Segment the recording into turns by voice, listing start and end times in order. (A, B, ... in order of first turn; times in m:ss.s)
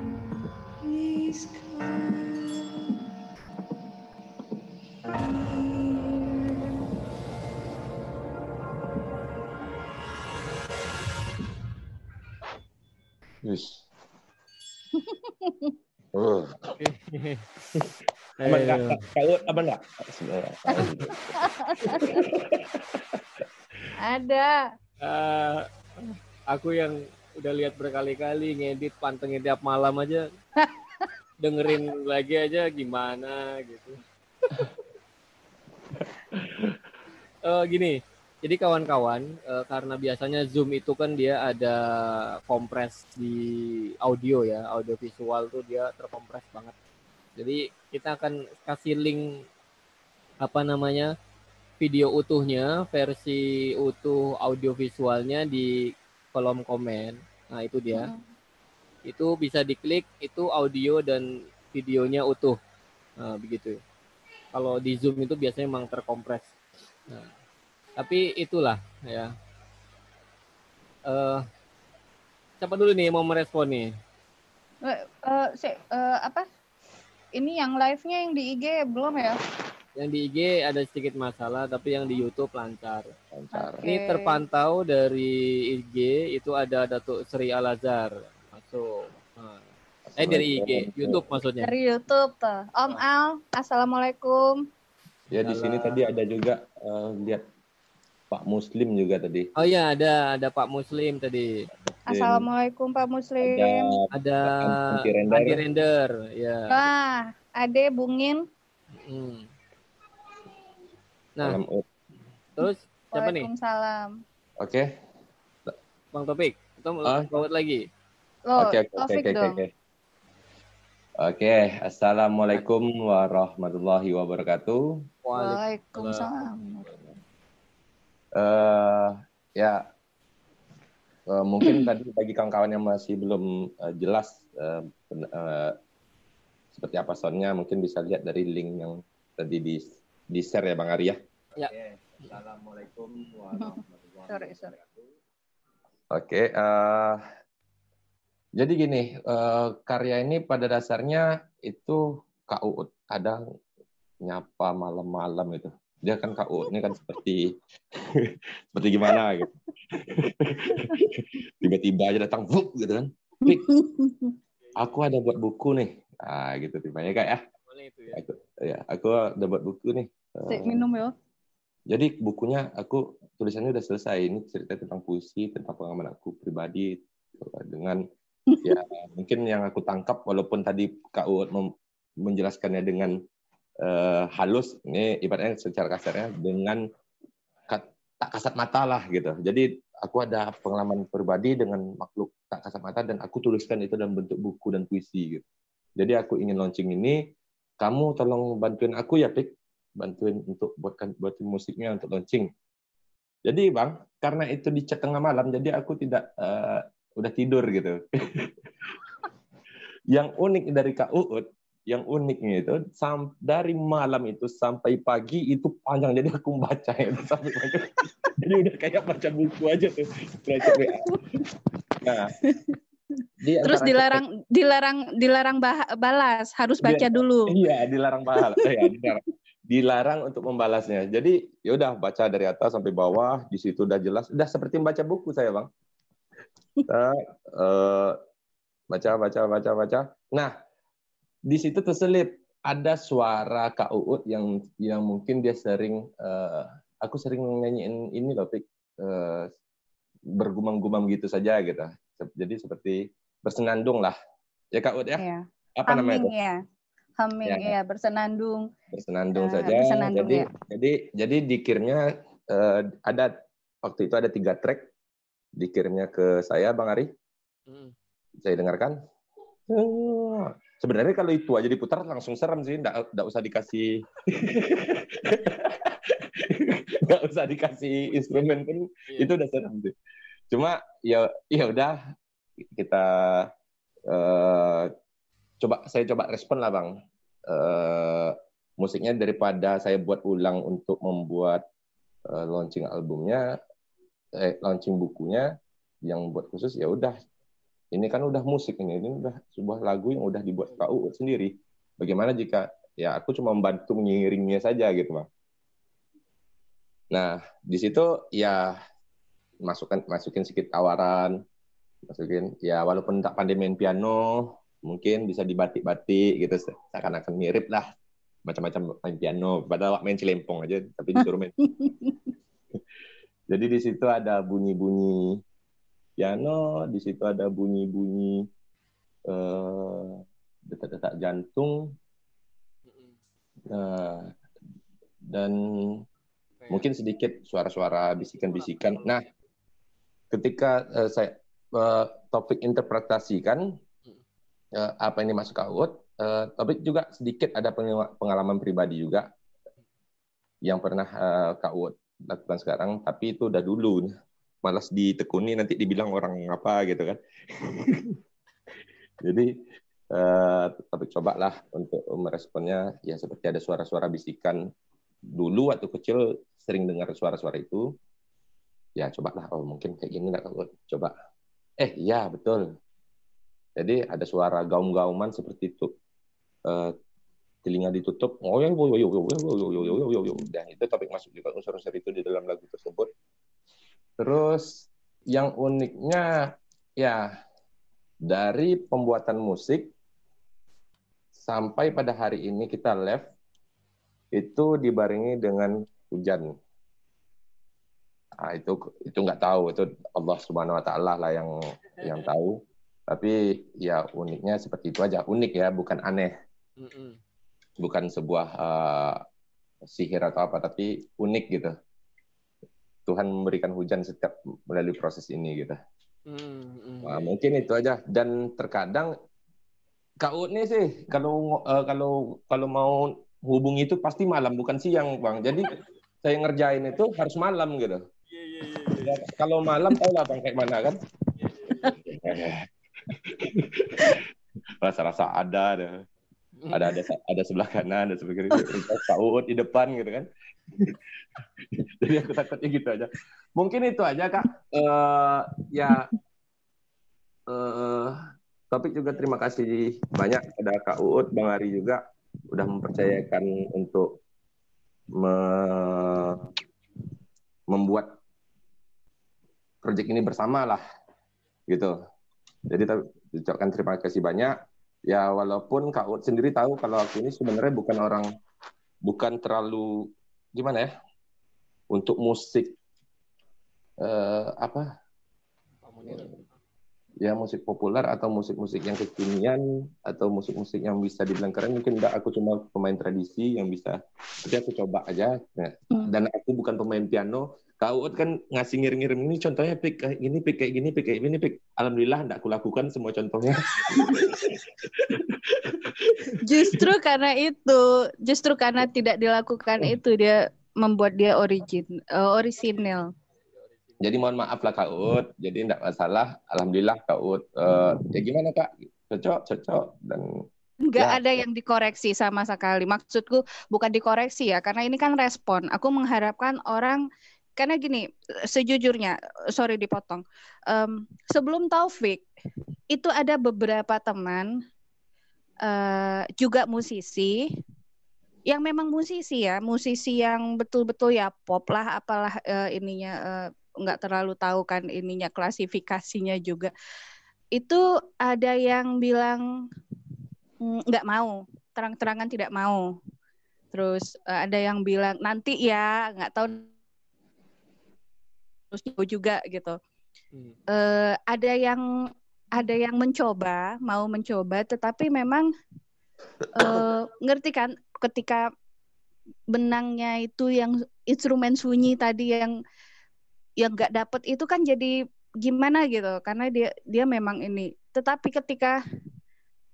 0:00.8-0:02.9 A
0:05.2-0:06.7 A
0:13.4-0:13.8 B
0:14.9-0:15.7 A
0:16.1-0:16.7 B
0:16.8-0:17.5 C
0:18.4-0:19.0 C
0:18.4-0:23.9 B
0:20.7-0:22.3 A
0:24.0-0:24.6 A
0:25.0-0:30.2 C
0:30.6-0:31.1 A
0:31.4-0:34.0 C
0:36.0-0:36.8 B
0:37.4-0:46.7 C
0:47.4-0:49.3 C
0:50.4-0:51.1 C
0:51.8-0:58.1 C
0:57.9-0:58.2 A
0:59.1-1:02.6 C
1:03.2-1:03.8 C
1:04.5-1:06.5 C
1:07.1-1:07.3 C
1:08.0-1:09.3 C
1:11.1-1:11.4 C
1:12.6-1:13.9 C
1:14.8-1:16.4 A
1:17.3-1:19.4 A
1:20.0-1:23.1 C
1:23.3-1:23.8 B
1:23.5-1:24.4 A
1:23.8-1:29.7 C
1:30.1-1:31.2 B
1:30.2-1:31.7 C
1:31.6-1:34.6 A
1:35.3-1:37.4 B
1:35.4-1:36.1 C
1:38.3-1:39.5 B
1:39.6-1:41.6 C
1:41.8-1:42.5 B
1:42.1-1:43.9 A
1:43.4-1:45.6 B
1:44.1-1:46.8 C
1:46.7-1:48.4 A
1:48.9-1:49.5 C
1:51.4-1:51.8 B
1:52.6-1:53.5 C
1:53.1-1:54.2 A
1:54.6-1:54.9 B
1:56.1-1:57.8 C
1:58.5-1:59.6 A
1:58.6-1:59.7 B
2:01.2-2:05.0 B
2:05.2-2:06.3 C
2:05.4-2:06.8 A
2:08.4-2:09.8 B
2:11.3-2:15.7 B
2:11.6-2:11.9 A
2:16.7-2:21.2 B
2:21.7-2:25.0 B
2:23.5-2:24.8 A
2:26.1-2:27.2 B
2:28.6-2:33.4 B
2:34.2-2:43.7 B
2:43.4-2:44.3 A
2:44.6-2:44.9 C
2:44.8-2:47.4 B
2:47.6-2:48.2 C
2:48.1-2:50.8 B
2:50.5-2:51.1 A
2:51.9-2:58.0 B
2:58.5-2:58.7 A
2:58.6-3:03.2 B
3:03.8-3:06.8 B
3:07.7-3:15.4 B
3:16.0-3:17.2 B
3:17.8-3:22.5 B
3:23.4-3:28.5 B
3:30.1-3:41.2 B
3:40.6-3:41.2 A
3:42.0-3:42.3 B
3:42.4-3:42.8 A
3:43.4-3:44.2 B
3:43.6-3:47.5 A
3:46.8-3:55.7 B
3:48.4-3:49.0 A
3:56.9-3:58.2 B
3:58.9-4:00.5 B
4:01.5-4:09.5 B
4:10.3-4:14.2 B
4:14.7-4:15.2 B
4:15.2-4:16.6 A
4:15.8-4:16.3 B
4:17.2-4:18.7 A
4:17.4-4:17.7 B
4:18.9-4:24.9 B
4:19.3-4:20.5 A
4:25.6-4:27.1 B
4:27.7-4:27.9 C
4:28.4-4:29.0 B
4:29.7-4:39.9 B
4:38.1-4:39.3 C
4:40.5-4:42.0 B
4:42.7-4:43.5 B
4:44.1-4:44.9 B
4:45.6-4:46.9 B
4:47.5-4:51.6 B
4:52.3-4:53.6 B
4:54.3-4:55.5 B
4:56.0-4:57.2 B
4:57.9-5:05.3 B
5:07.1-5:08.7 B
5:09.6-5:11.4 B
5:12.1-5:17.9 B
5:18.5-5:21.5 B
5:21.2-5:22.2 A
5:23.5-5:25.4 B
5:26.2-5:28.4 B
5:29.3-5:32.0 B
5:32.9-5:33.2 C
5:33.7-5:34.3 B
5:35.3-5:36.0 B
5:36.6-5:36.9 C
5:36.7-5:39.2 B
5:38.2-5:39.4 C
5:40.3-5:43.7 B
5:44.7-5:49.3 B
5:50.6-5:54.1 B
5:54.6-5:58.2 B
5:59.2-5:59.5 B
6:00.1-6:04.6 B
6:05.3-6:07.9 B
6:09.0-6:11.1 B
6:11.8-6:12.7 B
6:13.8-6:15.9 B
6:16.7-6:16.9 B
6:17.6-6:23.1 B
6:24.2-6:26.3 B
6:27.0-6:27.3 B
6:28.2-6:29.9 B
6:31.4-6:33.3 B
6:34.3-6:36.6 B
6:38.4-6:46.3 B
6:42.0-6:42.2 C
6:46.8-6:47.2 C
6:47.8-6:49.2 B
6:49.8-6:51.7 B
6:53.0-6:55.8 B
6:56.3-6:57.4 C
6:57.0-6:59.1 B
7:00.2-7:08.0 B
7:08.3-7:09.2 C
7:09.0-7:11.0 B
7:11.4-7:12.0 C
7:12.0-7:14.2 B
7:14.8-7:16.0 B
7:16.6-7:16.9 C
7:16.7-7:20.9 B
7:18.5-7:18.8 A
7:22.0-7:26.1 B
7:27.5-7:28.1 B
7:28.7-7:34.2 B
7:35.1-7:36.5 B
7:37.7-7:38.1 B
7:39.8-7:40.8 B
7:41.7-7:42.0 B
7:42.7-7:48.3 B
7:49.0-7:50.9 B
7:51.9-7:52.8 B
7:54.0-7:54.9 B
7:55.8-7:56.6 C
7:57.2-8:16.9 B
8:13.9-8:14.2 A
8:16.4-8:23.1 A
8:22.6-8:24.1 C
8:24.0-8:30.3 B
8:30.9-8:37.0 A
8:31.0-8:31.4 B
8:37.6-8:42.2 A
8:42.9-8:44.5 A
8:45.6-8:47.4 A
8:48.5-8:56.7 A
8:57.5-8:59.4 A
9:00.6-9:02.8 A
9:03.7-9:06.7 A
9:08.7-9:09.8 A
9:10.7-9:11.8 A
9:12.5-9:15.5 A
9:16.5-9:18.5 A
9:16.6-9:16.9 B
9:19.5-9:22.5 A
9:23.6-9:28.8 A